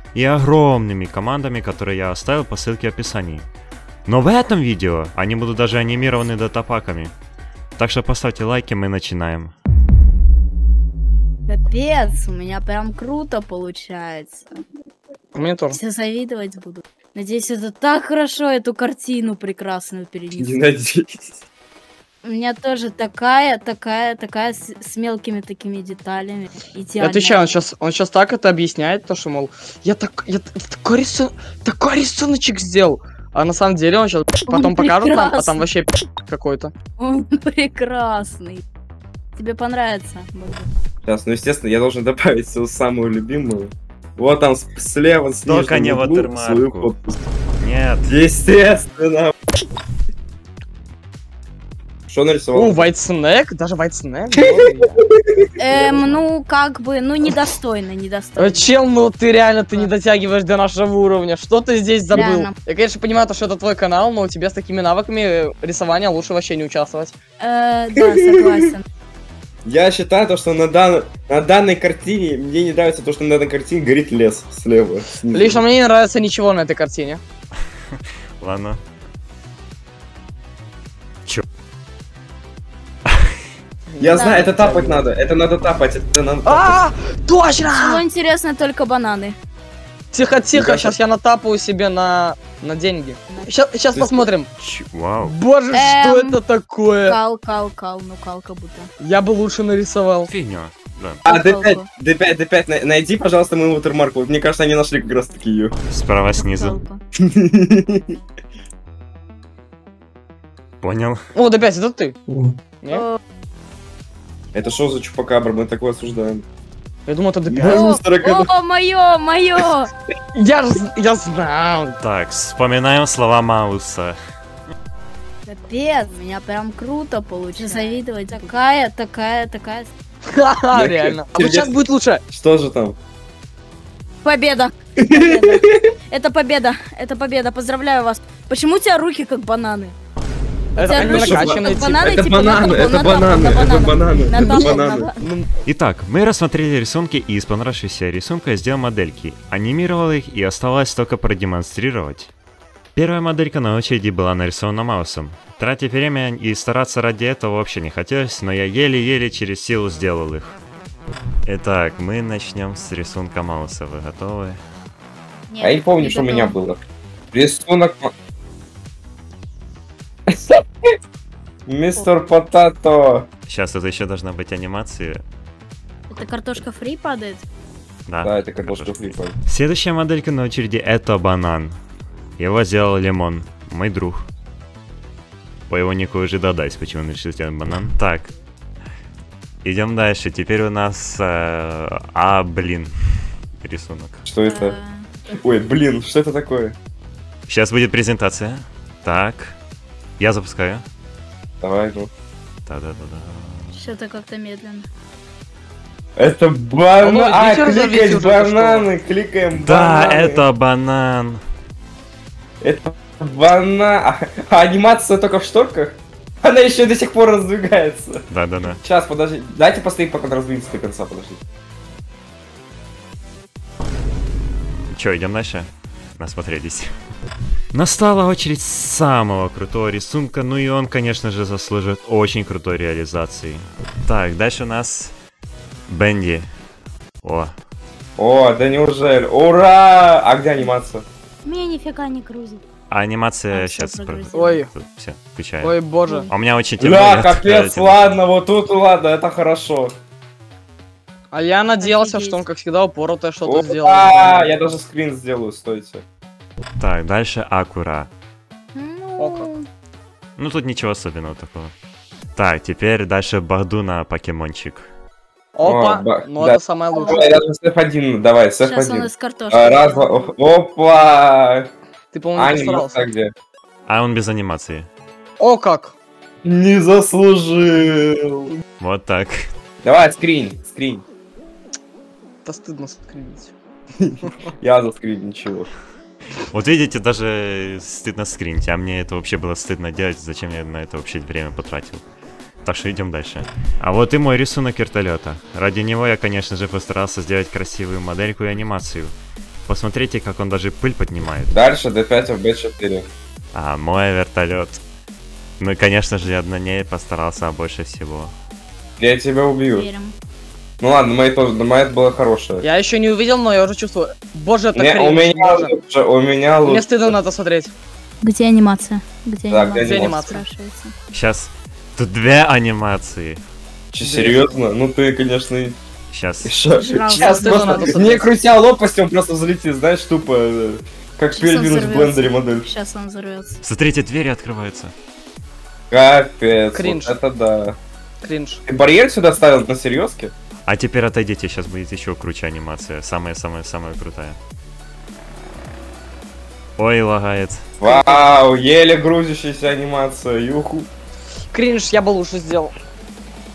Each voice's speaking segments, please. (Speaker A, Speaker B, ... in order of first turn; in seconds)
Speaker A: 0.1-3.5, 4.1-7.1, 7.8-9.5, 45.5-46.9, 47.6-48.1, 77.9-78.8, 94.6-95.3, 100.3-101.2, 105.9-106.8, 110.8-111.2, 122.0-124.2, 145.7-152.3, 152.9-160.6, 161.4-164.6, 173.5-175.2, 178.1-181.8, 182.4-184.3, 185.7-188.3, 189.6-194.2, 197.5-199.6, 200.2-200.8, 202.7-203.8, 209.6-211.4, 218.3-218.8, 224.9-226.9, 227.7-235.1, 235.9-236.5, 237.2-237.5, 242.9-245.8, 246.3-248.1, 256.8-258.1, 260.4-261.7, 262.4-264.9, 273.9-274.9, 278.8-279.5, 286.5-292.0, 292.6-299.1, 299.7-301.6, 303.5-304.8, 305.6-308.3, 321.1-323.4, 326.1-326.5, 333.6-334.9, 340.7-344.4, 346.8-347.6
Speaker B: 11.5-14.4, 15.7-20.6, 22.2-27.6, 34.5-35.6, 37.0-38.6, 39.4-40.8, 55.6-58.8, 62.1-62.5, 67.4-68.8, 84.2-84.4, 87.6-89.4, 95.7-96.4, 97.0-98.9, 101.3-101.9, 106.4-107.0, 112.9-113.2, 117.7-119.9, 125.5-129.9, 134.2-139.9, 140.8-145.2, 165.5-166.6, 176.1-177.4, 194.4-195.1, 203.7-204.9, 241.4-242.6, 243.5-244.6, 251.8-252.4, 258.7-259.7, 266.9-267.2, 268.6-270.3, 309.7-310.1, 318.2-320.9, 326.8-328.2, 331.4-333.6
Speaker C: 15.3-15.8, 27.0-36.7, 52.5-55.0, 58.4-67.2, 75.3-77.2, 83.9-85.0, 86.5-88.0, 90.1-94.5, 95.2-97.2, 99.0-100.3, 111.3-112.2, 117.1-118.0, 120.3-122.0, 130.3-132.2, 140.8-142.1, 207.0-208.9, 244.3-244.7, 245.6-246.3, 251.3-254.5, 259.2-259.5, 265.6-267.3, 272.1-273.1, 275.4-275.9, 282.4-283.5, 312.6-315.8, 316.6-317.7, 319.8-320.4, 324.0-324.6, 327.1-328.3, 336.7-337.2, 338.2-338.6, 347.8-348.4, 351.5-352.7
Speaker D: 20.4-21.3, 41.1-47.2, 48.0-49.3, 52.1-52.9, 54.4-56.2, 68.0-68.7, 69.7-75.6, 84.0-86.8, 90.5-91.0, 93.9-94.3, 101.2-105.7, 107.2-108.2, 114.5-116.5, 117.5-118.5, 130.7-131.7, 132.3-133.0, 135.0-135.8, 140.9-145.1, 165.6-166.8, 167.3-168.1, 170.3-170.6, 171.7-173.3, 178.2-179.4, 194.3-194.8, 195.3-196.8, 201.6-202.1, 206.2-210.4, 212.6-218.2, 218.8-221.4, 238.2-241.1, 246.8-249.9, 253.4-256.0, 265.6-271.7, 272.4-273.3, 276.4-278.5, 279.8-281.1, 284.0-285.7, 301.5-303.1, 309.0-309.9, 310.8-312.6, 314.7-317.1, 319.5-320.4, 323.9-325.8, 326.4-332.7, 335.9-337.8, 338.7-340.3, 347.8-350.9